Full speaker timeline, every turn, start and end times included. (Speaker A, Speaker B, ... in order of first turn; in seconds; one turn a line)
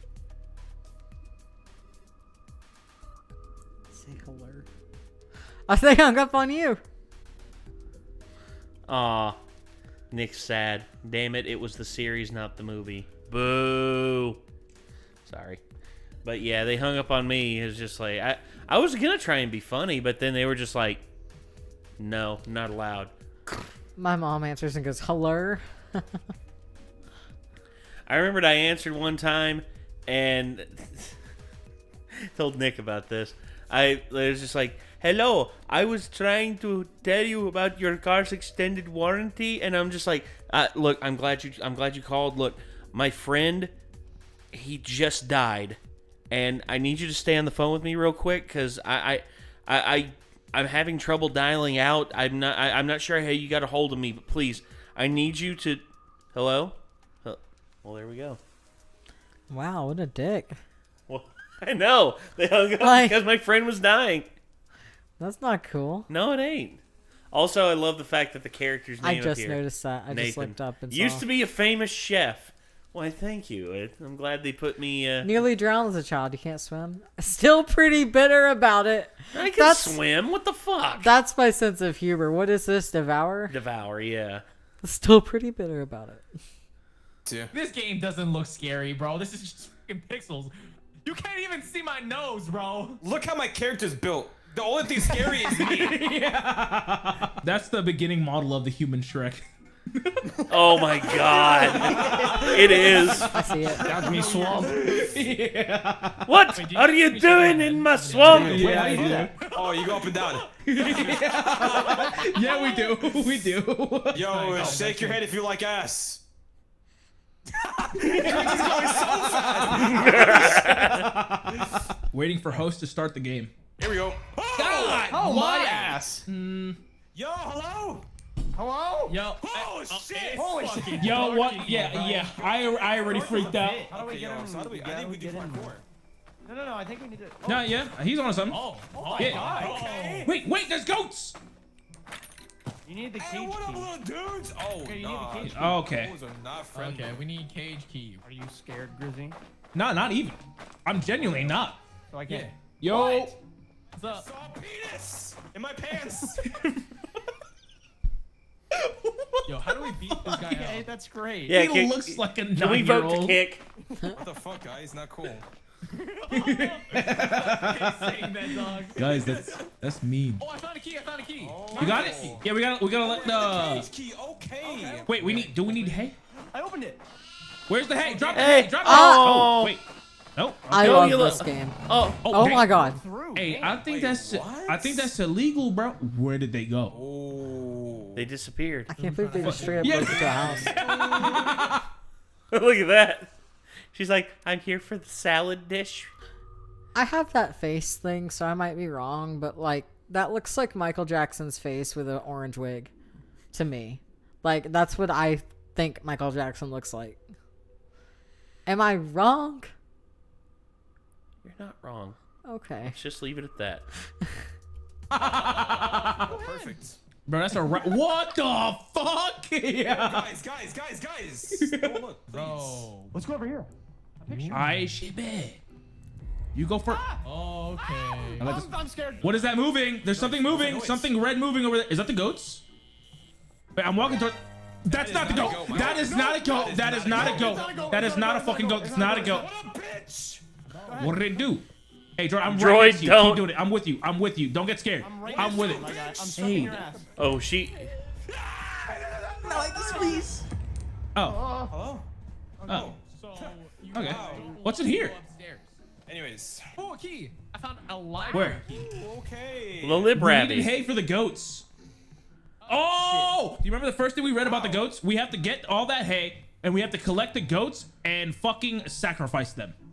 Speaker A: 3.9-4.7
Speaker A: 5.7-6.8
Speaker B: 8.9-9.4
Speaker B: 10.1-14.4
Speaker B: 15.2-15.6
Speaker B: 16.2-21.0
Speaker B: 22.0-23.6
Speaker A: 24.0-26.2
Speaker B: 28.1-31.2
Speaker B: 32.1-43.7
Speaker B: 44.5-45.8
Speaker B: 46.3-55.8
Speaker B: 56.3-58.4
Speaker A: 59.5-60.6
Speaker B: 61.1-64.3
Speaker A: 62.8-63.2
Speaker A: 65.2-66.1
Speaker B: 66.1-75.3
Speaker A: 69.0-71.2
Speaker A: 75.2-80.0
Speaker B: 79.3-81.1
Speaker A: 81.0-83.6
Speaker B: 83.5-84.4
Speaker A: 84.8-86.3
Speaker C: 87.2-87.5
Speaker D: 87.5-90.5
Speaker D: 91.0-93.0
Speaker C: 93.0-96.0
Speaker E: 95.2-106.3
Speaker B: 100.5-103.3
Speaker D: 101.6-102.7
Speaker A: 103.3-103.9
Speaker C: 103.8-105.1
Speaker D: 104.0-104.8
Speaker B: 106.2-108.9
Speaker D: 106.5-109.3
Speaker E: 108.2-114.8
Speaker C: 108.2-112.2
Speaker F: 108.6-109.3
Speaker C: 114.1-116.2
Speaker D: 114.3-115.2
Speaker E: 117.8-123.5
Speaker C: 118.0-120.7
Speaker B: 119.9-121.1
Speaker C: 123.8-126.0
Speaker E: 124.5-125.5
Speaker F: 125.1-126.2
Speaker D: 125.4-125.9
Speaker E: 126.2-126.8
Speaker C: 127.1-128.1
Speaker F: 128.5-129.2
Speaker D: 129.1-132.3
Speaker C: 129.4-131.0
Speaker E: 130.2-130.4
Speaker F: 130.3-131.3
Speaker E: 131.0-133.9
Speaker F: 133.0-135.8
Speaker C: 133.9-135.8
Speaker F: 136.4-137.7
Speaker E: 137.4-141.4
Speaker D: 138.5-140.2
Speaker F: 138.9-140.3
Speaker C: 139.2-140.3
Speaker F: 142.8-143.9
Speaker C: 143.2-147.2
Speaker F: 144.8-145.8
Speaker E: 145.4-146.1
Speaker D: 146.7-148.2
Speaker F: 148.2-149.4
Speaker E: 149.7-151.8
Speaker C: 151.2-151.5
Speaker F: 152.1-153.4
Speaker E: 152.8-153.3
Speaker D: 153.9-154.2
Speaker C: 154.1-156.4
Speaker E: 156.4-156.8
Speaker E: 158.7-160.5
Speaker D: 159.5-160.9
Speaker F: 160.4-161.6
Speaker B: 161.5-163.6
Speaker E: 161.5-163.4
Speaker C: 164.1-165.5
Speaker D: 165.9-169.3
Speaker E: 166.3-170.4
Speaker C: 169.0-169.6
Speaker D: 170.4-172.3
Speaker C: 171.4-172.4
Speaker F: 171.7-172.4
Speaker E: 171.8-173.9
Speaker C: 173.0-175.1
Speaker F: 174.6-175.1
Speaker E: 175.1-176.2
Speaker D: 175.1-176.1
Speaker F: 176.5-177.0
Speaker E: 177.7-179.8
Speaker F: 177.9-178.6
Speaker B: 178.3-179.8
Speaker A: 178.8-179.4
Speaker E: 180.3-181.4
Speaker A: 180.7-183.0
Speaker B: 180.8-182.2
Speaker E: 182.2-182.7
Speaker F: 182.4-183.8
Speaker E: 183.3-186.9
Speaker C: 183.6-185.1
Speaker C: 186.9-188.2
Speaker B: 188.1-188.9
Speaker A: 188.9-190.7
Speaker D: 189.0-190.1
Speaker E: 189.4-191.8
Speaker B: 192.5-193.3
Speaker B: 193.9-196.1
Speaker A: 196.9-202.9
Speaker A: 203.5-207.2
Speaker A: 208.7-209.7
Speaker B: 211.4-212.2
Speaker A: 212.4-213.0
Speaker B: 212.9-213.8
Speaker A: 214.2-214.5
Speaker E: 215.1-216.4
Speaker C: 215.2-217.0
Speaker E: 217.2-220.3
Speaker C: 219.8-222.9
Speaker E: 221.5-222.0
Speaker D: 222.3-223.1
Speaker F: 223.1-224.7
Speaker D: 224.3-224.7
Speaker E: 224.5-225.6
Speaker E: 226.5-227.0
Speaker F: 226.9-227.2
Speaker D: 227.2-228.6
Speaker F: 228.4-229.4
Speaker E: 228.4-232.6
Speaker C: 230.1-231.1
Speaker E: 233.7-239.4
Speaker C: 234.9-238.2
Speaker F: 235.7-239.5
Speaker C: 239.1-240.4
Speaker F: 240.8-241.4
Speaker E: 240.9-246.8
Speaker B: 242.4-243.5
Speaker F: 245.0-247.1
Speaker C: 245.2-246.8
Speaker B: 247.2-247.9
Speaker C: 248.3-250.2
Speaker E: 249.5-250.4
Speaker E: 251.1-251.5
Speaker F: 251.2-251.7
Speaker C: 251.7-252.1
Speaker F: 252.6-252.9
Speaker C: 252.7-254.6
Speaker D: 253.0-255.8
Speaker E: 253.9-255.2
Speaker F: 254.2-254.6
Speaker C: 256.1-256.7
Speaker D: 256.8-259.0
Speaker E: 258.3-258.6
Speaker C: 258.7-260.1
Speaker B: 259.8-260.7
Speaker E: 260.1-261.6
Speaker D: 262.6-263.3
Speaker E: 262.7-269.8
Speaker C: 264.4-264.7